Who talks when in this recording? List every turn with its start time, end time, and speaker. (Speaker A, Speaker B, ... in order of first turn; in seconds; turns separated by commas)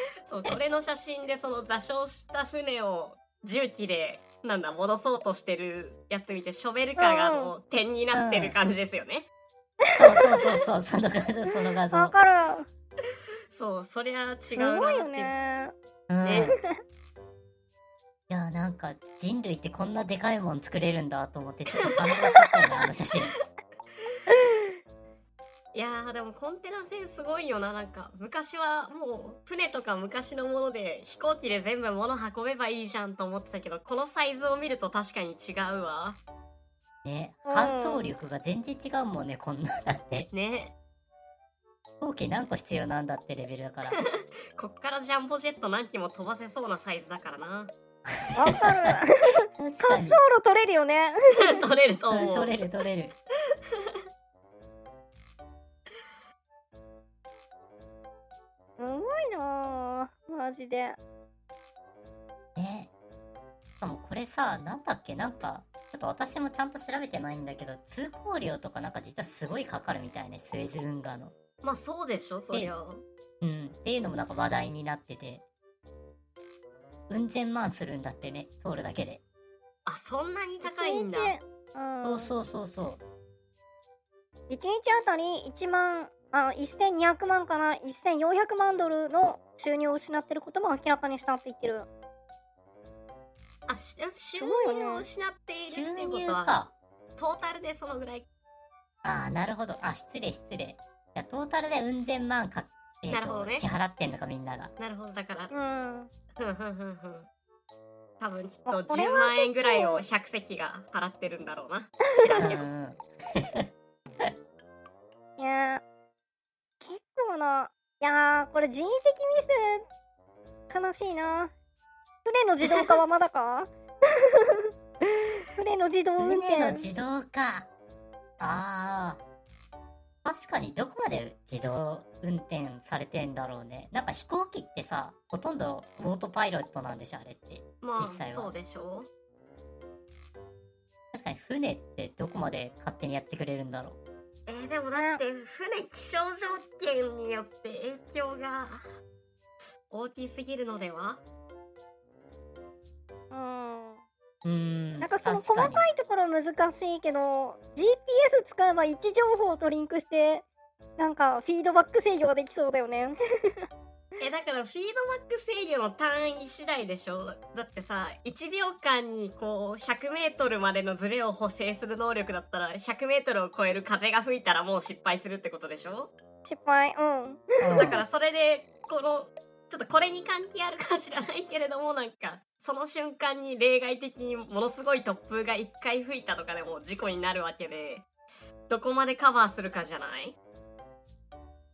Speaker A: 0.3-9.3, Speaker B: 7.0-7.5, Speaker C: 8.1-8.6, Speaker C: 10.0-12.1, Speaker B: 10.0-10.5, Speaker B: 11.9-12.7, Speaker A: 13.5-15.3, Speaker B: 14.5-15.7, Speaker C: 16.1-16.5, Speaker A: 16.2-16.6, Speaker C: 18.3-23.3, Speaker A: 25.7-36.2, Speaker C: 37.0-40.3, Speaker B: 37.4-38.1, Speaker A: 40.3-40.7, Speaker C: 42.0-44.0, Speaker A: 43.9-47.7, Speaker C: 48.3-49.0, Speaker B: 48.3-51.6, Speaker C: 49.6-50.2, Speaker A: 51.4-52.6, Speaker C: 52.1-53.2, Speaker B: 58.8-61.0, Speaker C: 62.5-62.9, Speaker C: 63.8-71.3, Speaker A: 71.6-73.0, Speaker C: 73.4-75.4, Speaker C: 77.1-79.2, Speaker A: 79.8-81.3, Speaker B: 80.6-82.3, Speaker C: 82.0-83.0, Speaker B: 84.5-91.9, Speaker A: 93.7-96.5, Speaker B: 94.4-95.0, Speaker C: 95.7-96.7, Speaker A: 97.2-98.2, Speaker C: 99.0-104.7, Speaker A: 103.1-103.6, Speaker A: 104.8-105.5, Speaker B: 105.5-106.1, Speaker A: 106.4-107.3, Speaker A: 108.2-112.7, Speaker B: 108.7-110.0, Speaker B: 112.0-112.5, Speaker C: 112.4-113.6, Speaker B: 115.4-115.8, Speaker B: 116.8-119.8, Speaker B: 120.7-121.5, Speaker B: 122.2-123.7, Speaker B: 125.6-126.9, Speaker C: 126.2-127.7, Speaker C: 128.4-129.2, Speaker C: 130.2-138.5, Speaker A: 137.8-139.1, Speaker C: 141.1-144.0, Speaker A: 144.5-148.8, Speaker B: 144.9-145.2, Speaker A: 149.9-151.2, Speaker B: 153.3-154.0, Speaker C: 154.4-155.8, Speaker B: 155.0-160.4, Speaker B: 161.0-163.1, Speaker A: 164.2-176.1, Speaker B: 176.4-178.0, Speaker C: 177.6-178.0, Speaker A: 177.8-188.1, Speaker A: 188.7-190.3